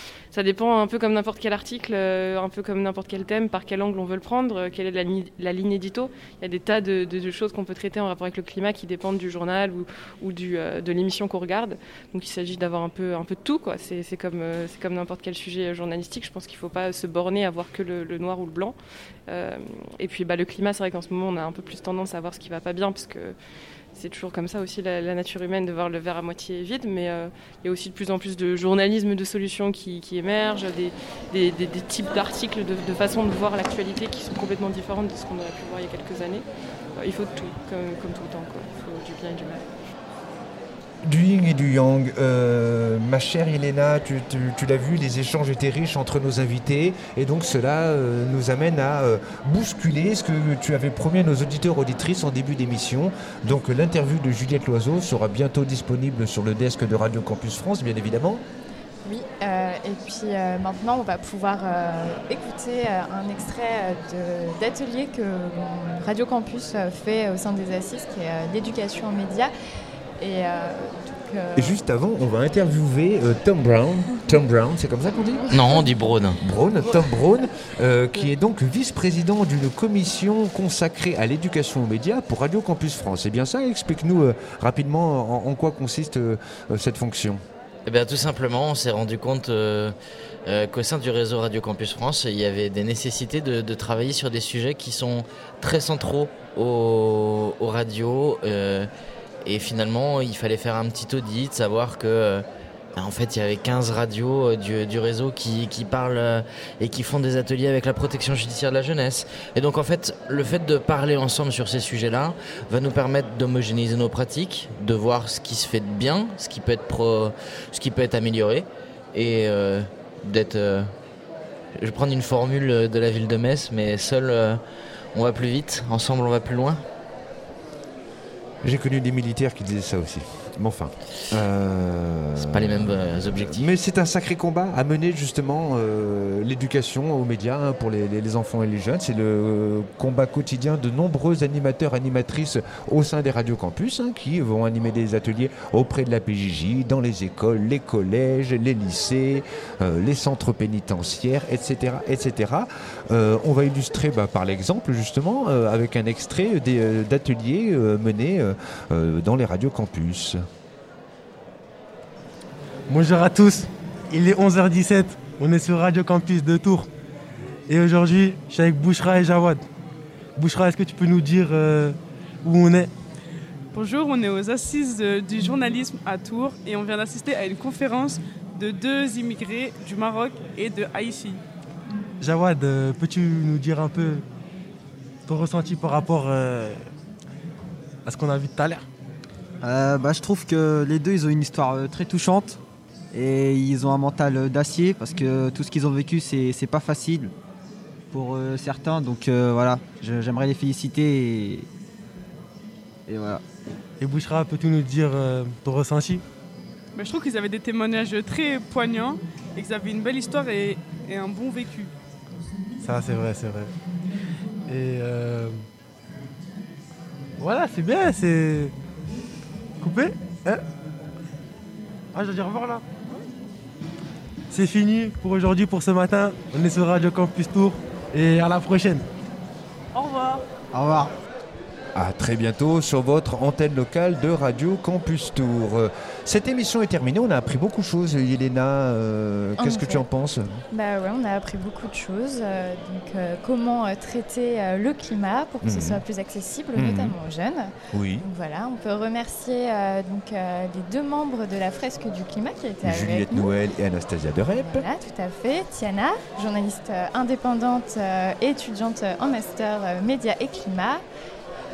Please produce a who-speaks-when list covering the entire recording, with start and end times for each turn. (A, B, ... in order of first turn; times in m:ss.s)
0:00.3-0:18.8 A
0:19.3-0:23.4 A
0:23.9-0:36.4 A
0:37.0-0:39.7 A
0:41.0-0:58.4 B
0:59.0-1:09.5 C
1:10.2-1:11.8 C
1:11.6-1:15.7 B
1:15.5-1:16.4 D
1:16.4-1:27.4 B
1:27.8-1:30.0 D
1:30.5-1:38.9 D
1:39.4-1:42.4 D
1:43.0-2:00.9 D
2:01.8-2:04.6 D
2:05.1-2:06.8 D
2:08.6-2:40.4 B
2:12.4-2:13.7 D
2:42.9-2:46.9 E
2:47.7-2:49.6 E
2:50.4-2:52.9 E
2:53.7-3:01.4 F
3:02.2-3:04.2 E
3:05.2-3:06.8 E
3:08.0-3:08.9 E
3:09.6-3:12.6 G
3:13.1-3:17.3 G
3:18.1-3:21.7 G
3:23.1-3:23.4 G
3:24.0-3:26.2 E
3:26.9-3:31.9 F
3:32.8-3:33.7 E
3:34.7-3:35.6 E
3:37.4-3:38.7 E
3:39.8-3:40.6 E
3:42.1-3:42.8 E
3:44.5-3:49.0 E
3:50.0-3:50.4 F
3:50.7-3:51.1 G
3:51.9-4:00.6 B
3:59.6-4:00.1 C
4:00.7-4:13.6 C
4:05.6-4:06.0 B
4:06.7-4:07.2 B
4:07.9-4:08.2 B
4:12.8-4:14.8 B
4:14.5-4:21.0 C